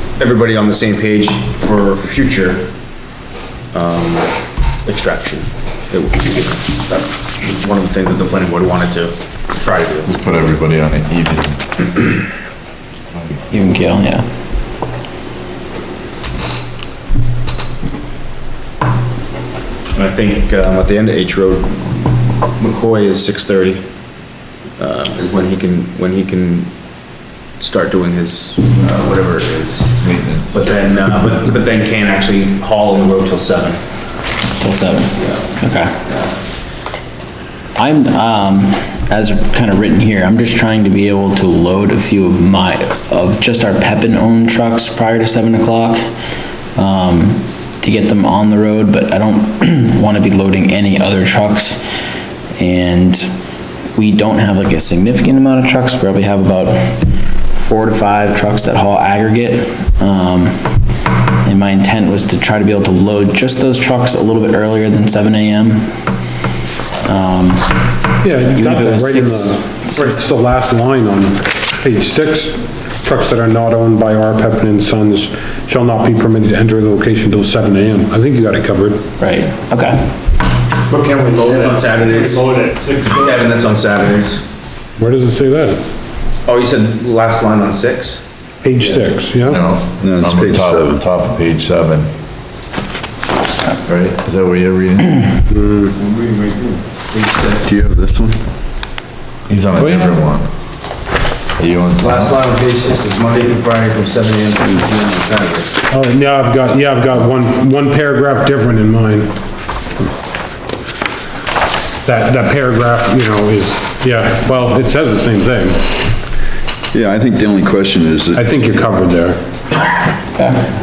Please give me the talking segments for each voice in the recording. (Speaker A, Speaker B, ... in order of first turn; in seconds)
Speaker A: 0.1-2.7, 3.7-10.1, 19.9-23.8, 24.8-26.7, 27.6-33.8, 35.2-35.5, 81.4-84.5, 86.4-88.3, 96.0-97.6, 102.0-105.8
Speaker B: 10.1-11.8, 13.1-13.4, 30.0-30.8, 89.4-92.1, 93.8-95.4, 99.5-100.5, 101.6-102.3
Speaker C: 13.5-14.3, 34.6-36.0, 37.8-46.0, 46.7-51.8, 52.6-53.3, 53.9-60.8, 61.4-66.0, 67.0-70.2, 79.2-80.1
Speaker D: 68.2-79.0, 85.0-85.8, 88.6-89.6, 95.5-95.9, 99.8-100.2, 105.9-109.3, 112.0-116.0, 118.3-119.4
Speaker E: 80.9-83.5
Speaker F: 90.0-91.0, 97.6-98.4, 116.9-118.4